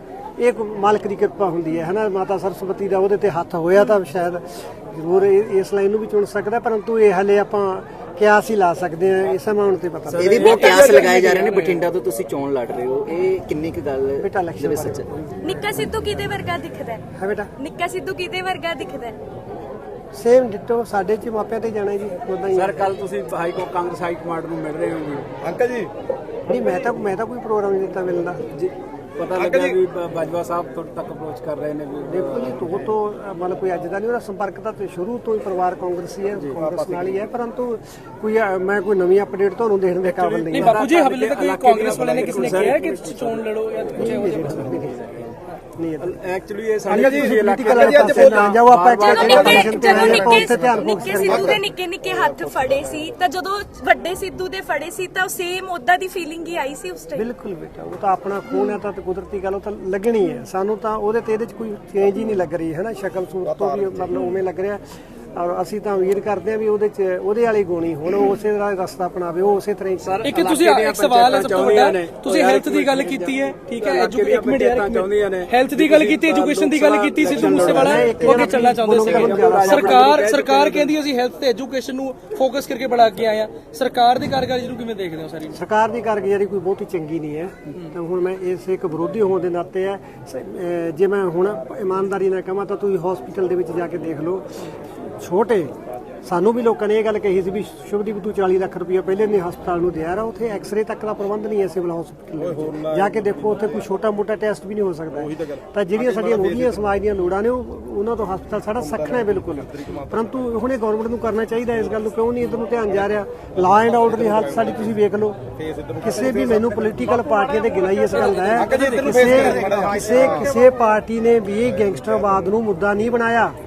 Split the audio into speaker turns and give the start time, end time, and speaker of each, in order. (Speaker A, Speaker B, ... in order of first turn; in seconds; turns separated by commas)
Speaker A: 0.4-10.6, Speaker B: 10.1-11.3, Speaker C: 10.2-15.1, Speaker D: 10.4-11.8, Speaker A: 14.2-15.4, Speaker E: 15.4-17.0, Speaker A: 17.1-17.5, Speaker E: 17.6-19.2, Speaker A: 20.1-22.8, Speaker B: 22.5-25.7, Speaker F: 25.6-25.9, Speaker A: 26.5-28.4, Speaker B: 28.5-32.7, Speaker A: 32.1-40.8, Speaker B: 40.2-43.4, Speaker D: 40.5-44.8, Speaker A: 44.0-45.1, Speaker A: 45.8-46.2, Speaker B: 46.0-50.3, Speaker A: 46.9-51.6, Speaker E: 49.0-57.2, Speaker A: 57.1-64.8, Speaker A: 65.3-70.2, Speaker B: 70.0-81.0, Speaker D: 70.2-85.6, Speaker A: 77.3-80.1, Speaker A: 85.5-95.7, Speaker A: 96.2-115.4, Speaker F: 115.6-116.6, Speaker A: 115.9-123.6, Speaker F: 118.4-120.5, Speaker D: 118.8-119.1